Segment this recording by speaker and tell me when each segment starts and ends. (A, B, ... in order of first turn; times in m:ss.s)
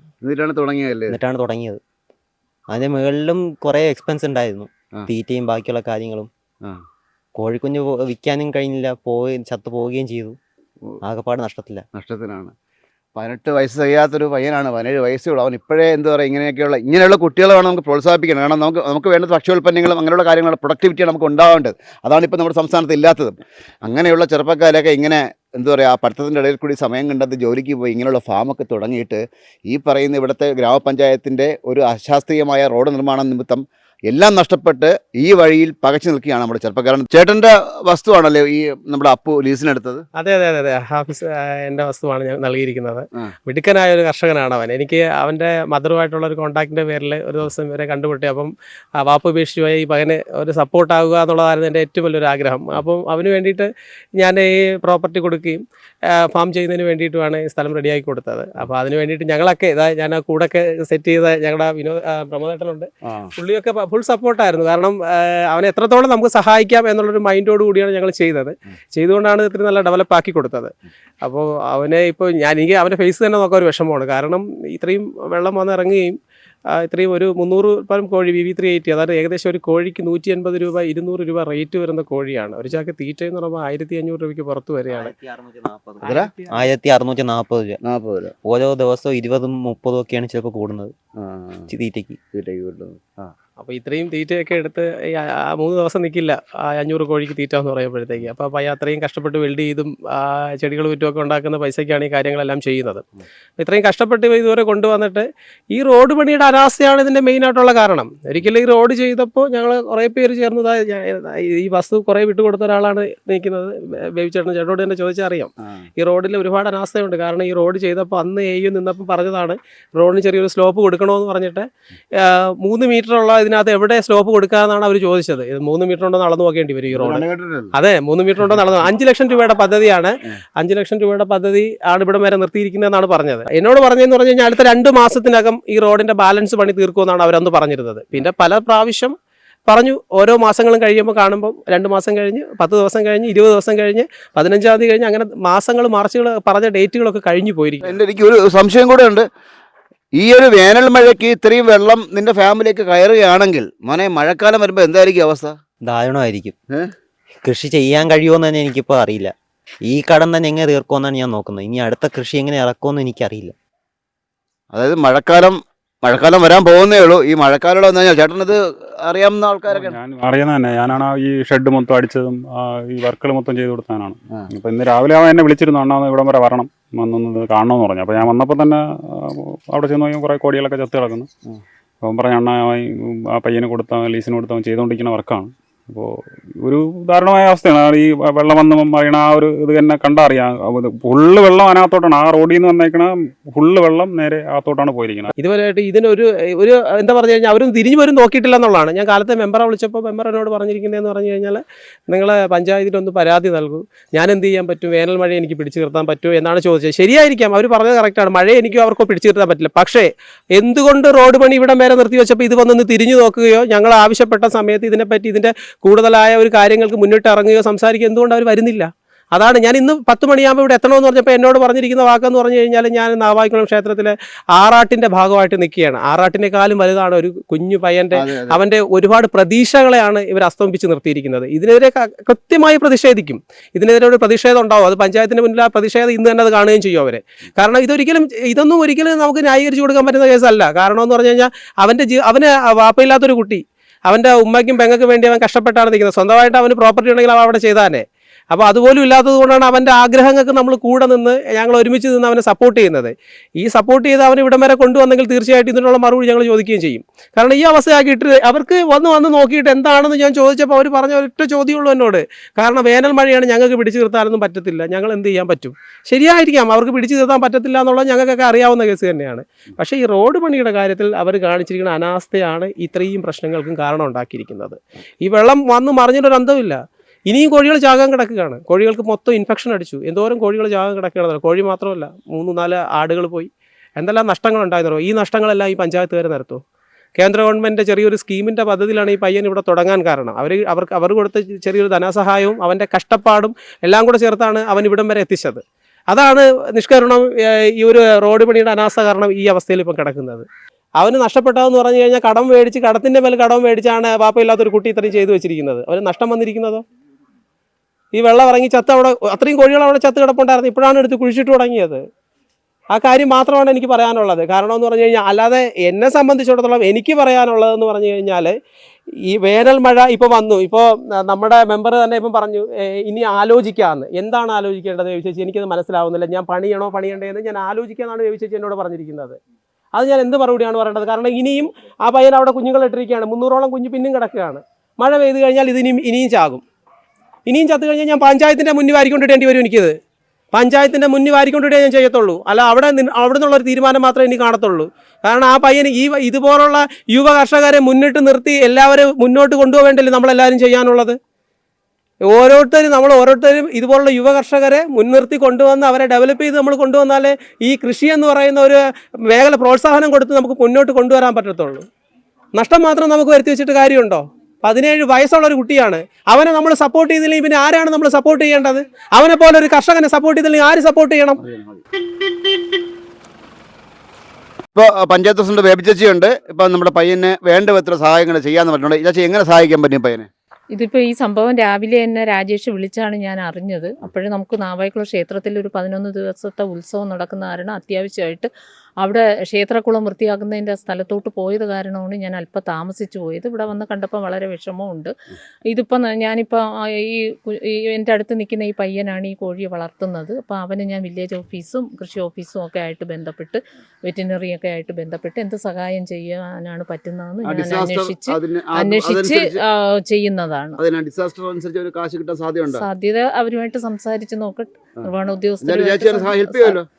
0:00.2-0:01.2 A
0:01.1-0:01.8 B
0:02.7-0:06.3 B
0:07.4-0:10.4 B
0:11.0-0:11.8 B
0:11.9-0:12.5 A
0:13.2-0:40.0 A
0:40.2-1:16.2 C
1:16.7-1:25.1 C
1:24.9-1:27.8 B
1:26.0-1:26.7 C
1:26.0-1:26.3 A
1:27.8-1:28.3 A
1:28.4-1:30.9 B
1:31.2-1:31.7 A
1:31.7-1:32.2 B
1:32.3-1:33.3 A
1:33.6-1:43.0 C
1:43.6-2:07.2 C
2:06.9-2:07.7 A
2:07.7-2:19.1 C
2:19.7-2:28.0 C
2:27.8-2:29.2 A
2:30.2-2:35.6 A
2:35.8-2:36.5 B
2:37.4-2:39.3 B
2:39.8-2:43.5 B
2:44.7-2:50.0 A
2:49.7-3:01.3 D
3:02.0-3:02.8 D
3:03.3-3:06.0 D
3:06.6-3:15.3 D
3:15.4-4:46.6 C
3:48.1-3:48.6 A
4:47.2-5:00.5 C
5:01.0-5:06.8 C
5:08.1-5:12.0 C
5:12.9-5:18.5 C
5:19.3-5:29.4 C
5:29.9-5:36.6 C
5:37.5-5:40.0 C
5:40.5-5:51.2 C
5:52.3-6:01.8 C
6:02.5-6:11.4 C
6:11.4-6:11.8 A
6:14.7-6:20.3 A
6:20.7-6:28.5 E
6:29.0-6:35.1 E
6:35.7-6:48.2 E
6:47.4-6:49.6 A
6:48.8-6:50.8 E
6:50.8-6:52.9 A
6:52.8-6:56.7 E
6:55.6-6:56.8 A